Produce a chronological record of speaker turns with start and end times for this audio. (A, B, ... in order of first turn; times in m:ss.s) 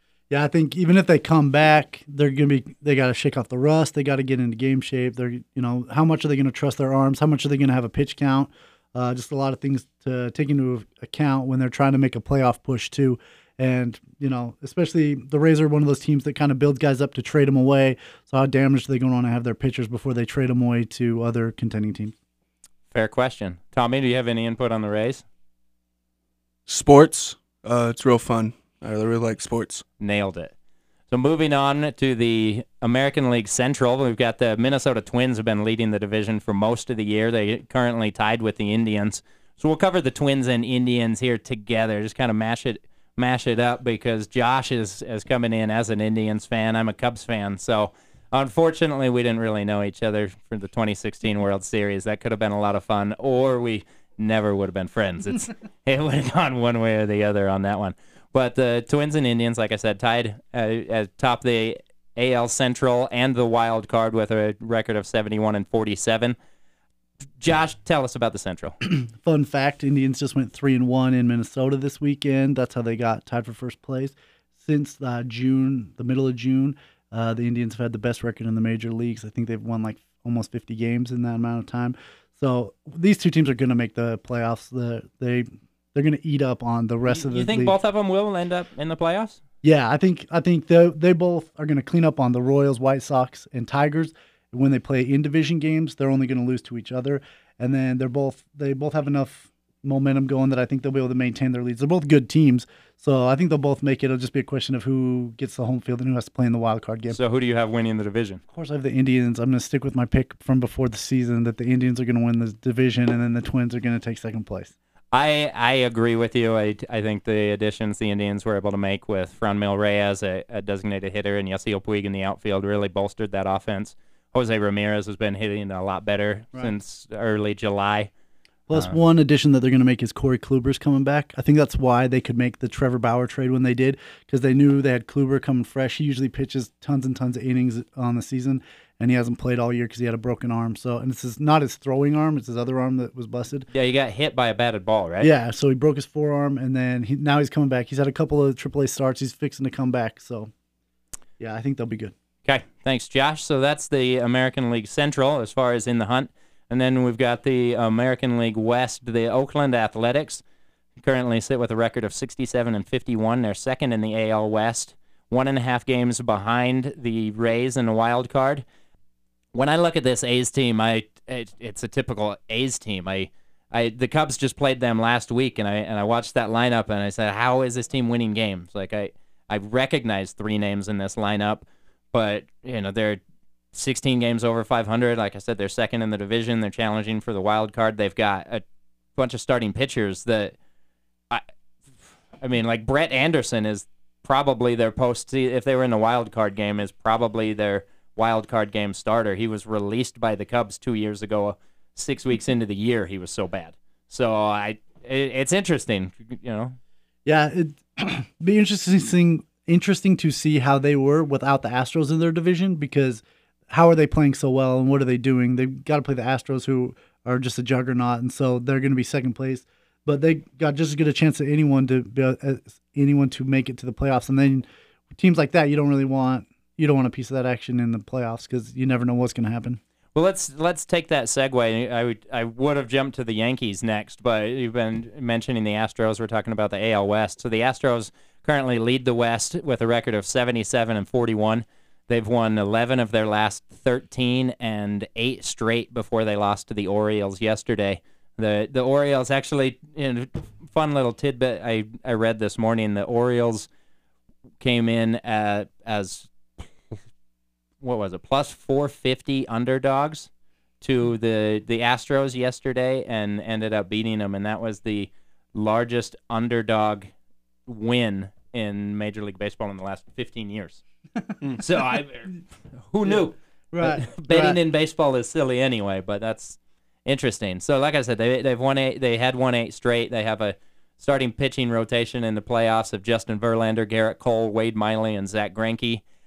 0:00.3-0:22.2 A
0:22.9-0:25.2 B
0:26.7-0:29.8 C
0:30.0-0:30.5 B
0:31.1-1:06.4 B
1:07.4-1:08.8 B
1:08.8-1:27.8 A
1:27.1-1:29.4 B
1:29.6-1:47.2 A
1:47.1-1:48.4 B
1:48.5-1:54.7 A
1:55.1-2:08.1 B
2:08.7-2:23.7 A
2:23.7-2:25.3 B
2:25.2-2:30.5 A
2:31.4-2:32.1 A
2:32.4-2:40.4 B
2:41.0-2:48.6 B
2:49.5-3:03.2 B
3:03.7-3:08.6 B
3:09.2-3:10.6 B
3:12.4-3:26.8 B
3:27.3-3:49.8 A
3:50.2-4:13.7 B
4:14.6-4:17.0 B
4:17.8-4:20.3 B
4:20.8-4:27.1 B
4:27.7-4:30.8 B
4:31.6-4:46.0 B
4:33.7-4:34.6 A